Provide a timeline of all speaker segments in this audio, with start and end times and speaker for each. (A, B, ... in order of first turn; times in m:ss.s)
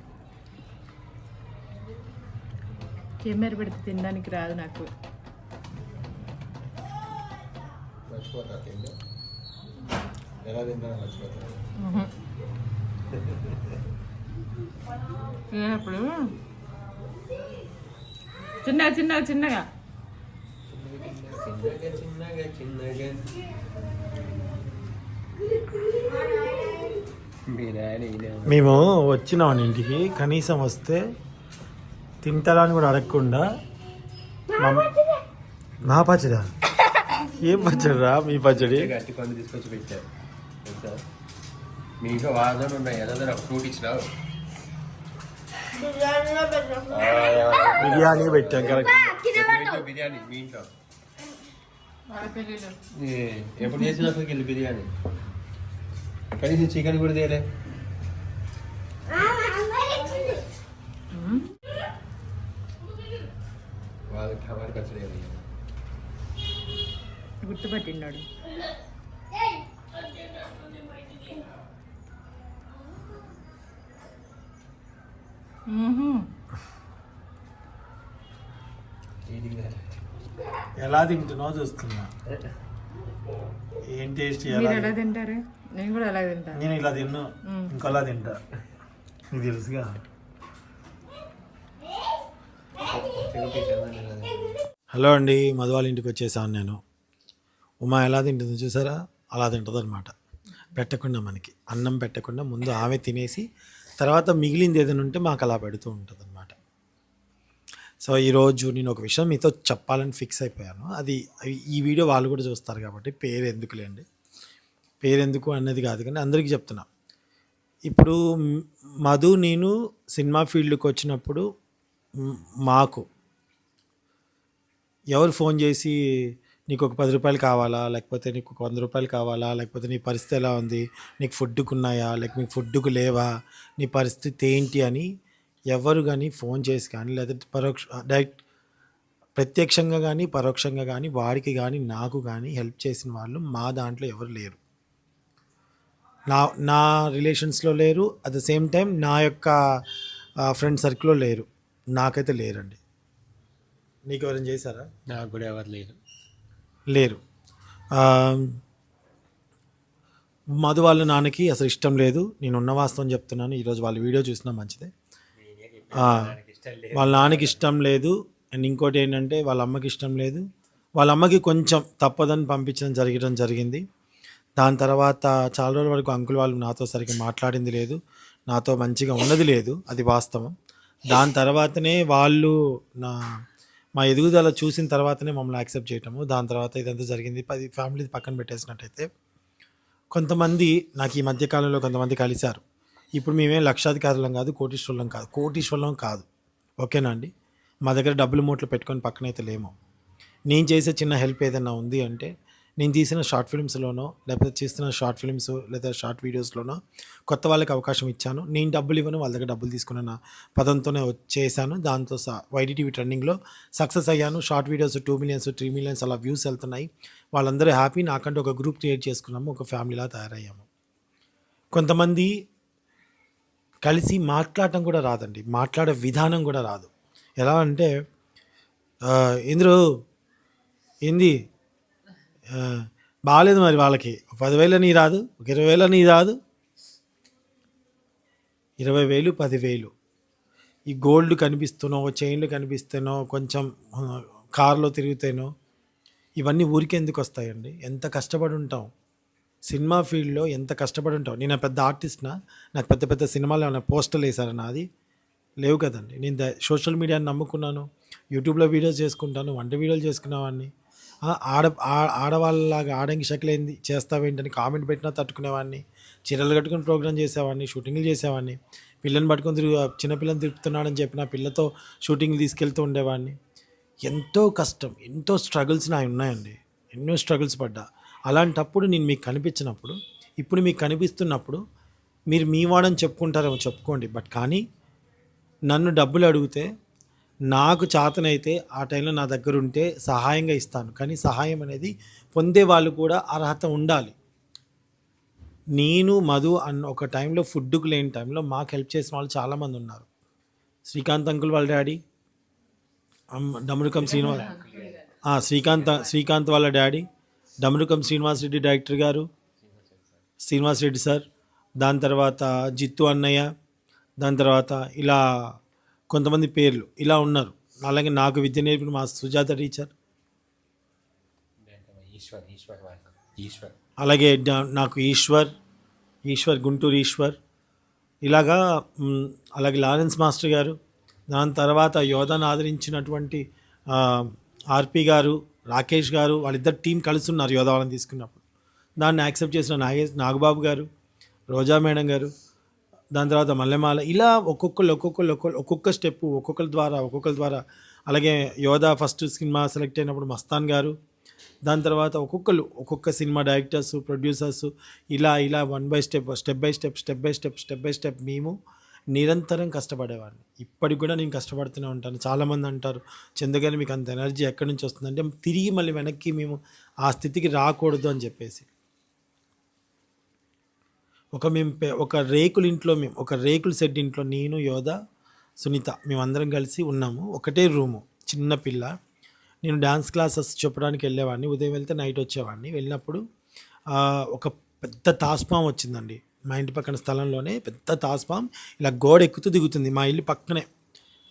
0:03.2-0:04.9 A
0:08.1-0:08.9 B
0:10.4-0:11.6 B
0:11.8-0:12.1 A
0:15.5-0:16.3 A
0:18.6-0:19.7 A
0:20.7-0:23.4 B
0:27.5-0:28.9 B
0:28.5-0:31.0 C
0:32.2-0:33.4 C
0:34.6-0:34.9 C
0:35.8-0:36.6 C
0:37.3-0:38.9 C
0:38.5-0:40.0 B
0:40.6-0:41.0 B
0:42.0-0:44.1 B
0:46.0-0:46.8 A
0:46.8-0:50.7 B
0:47.8-0:49.1 C
0:52.1-0:52.8 A
0:52.9-0:54.9 B
0:53.6-0:54.0 A
0:56.4-0:57.5 B
1:01.1-1:01.5 A
1:04.1-1:05.4 B
1:07.4-1:08.3 A
1:15.7-1:16.3 A
1:19.3-1:19.8 B
1:20.8-1:22.1 C
1:23.9-1:25.0 C
1:24.5-1:26.6 A
1:26.5-1:28.4 C
1:27.5-1:27.8 A
1:29.3-1:30.0 C
1:32.9-1:34.6 B
1:34.9-1:36.8 C
1:37.8-1:40.1 C
1:40.8-1:43.5 C
1:44.0-1:46.6 C
1:48.0-1:54.0 C
1:55.0-1:56.9 C
1:57.9-2:01.4 C
2:02.2-2:03.0 C
2:05.2-2:06.0 C
2:06.7-2:13.3 C
2:13.8-2:15.1 C
2:15.7-2:18.4 C
2:19.4-2:24.6 C
2:26.3-2:29.5 C
2:30.5-2:32.8 C
2:34.1-2:34.9 C
2:35.1-2:36.0 B
2:36.9-2:37.2 C
2:38.0-2:38.6 C
2:40.6-2:44.9 C
2:45.4-2:47.6 B
2:46.0-2:46.3 C
2:46.9-2:50.4 C
2:51.0-2:53.8 C
2:54.6-2:58.0 C
2:58.5-3:00.5 C
3:01.1-3:03.2 C
3:04.0-3:09.1 C
3:10.2-3:12.6 C
3:13.2-3:16.2 C
3:16.8-3:17.3 C
3:17.9-3:19.7 C
3:20.5-3:26.8 C
3:27.3-3:40.7 C
3:41.7-3:42.3 C
3:43.9-3:46.9 C
3:47.4-3:47.9 C
3:49.1-3:49.8 C
3:51.1-3:51.3 C
3:52.6-3:56.4 C
3:58.8-3:59.9 C
4:00.9-4:05.5 C
4:06.4-4:08.9 C
4:09.7-4:14.8 C
4:15.6-4:20.7 C
4:21.3-4:33.4 C
4:34.1-4:41.6 C
4:42.3-4:44.6 C
4:45.7-4:46.7 C
4:47.5-4:54.2 C
4:55.8-5:00.1 C
5:00.9-5:02.0 C
5:03.4-5:04.5 C
5:04.0-5:05.0 B
5:05.3-5:07.0 C
5:05.6-5:06.0 B
5:07.6-5:09.3 C
5:09.6-5:10.2 B
5:10.4-5:11.2 C
5:11.8-5:13.5 C
5:14.2-5:15.2 C
5:16.1-5:19.9 C
5:21.7-5:23.7 B
5:24.0-5:25.5 C
5:26.3-5:27.4 C
5:28.2-5:30.8 C
5:31.3-5:33.4 C
5:33.9-5:38.4 C
5:39.0-5:40.9 C
5:41.5-5:42.3 C
5:43.2-5:50.9 C
5:51.7-5:58.5 C
5:59.1-6:08.7 C
6:11.4-6:14.9 C
6:15.6-6:18.9 C
6:19.6-6:23.2 C
6:23.9-6:30.7 C